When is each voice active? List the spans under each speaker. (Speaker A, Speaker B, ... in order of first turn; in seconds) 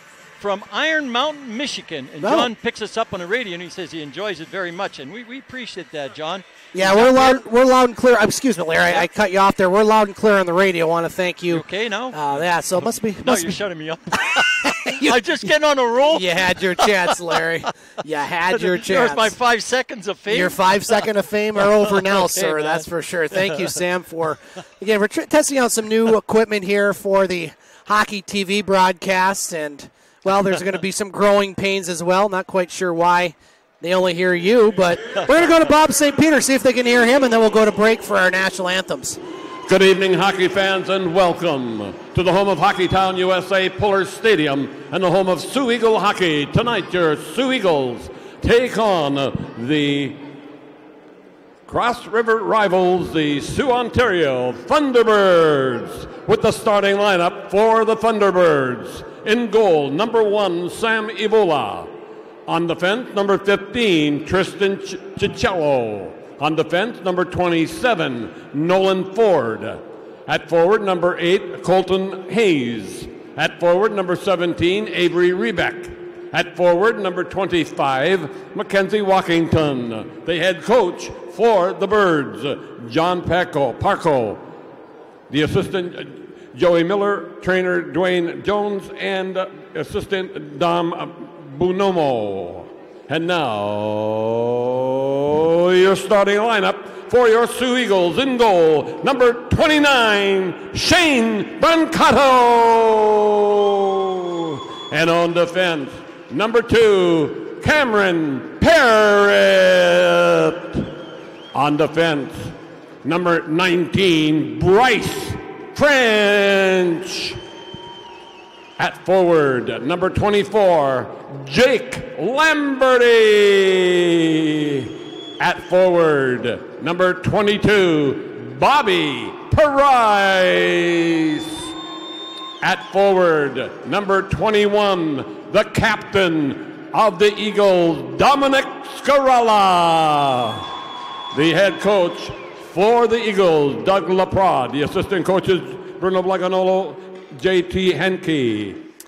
Speaker A: 0.4-7.4, 11.5-17.4, 18.5-21.0, 21.6-23.8
Speaker B: 2.2-2.5, 6.7-13.6, 14.3-15.2, 16.1-19.3, 20.3-39.2
Speaker C: 39.6-50.3, 51.7-61.9, 62.5-84.5, 85.3-111.0, 111.5-117.4, 118.8-131.8, 132.6-140.7, 141.3-148.8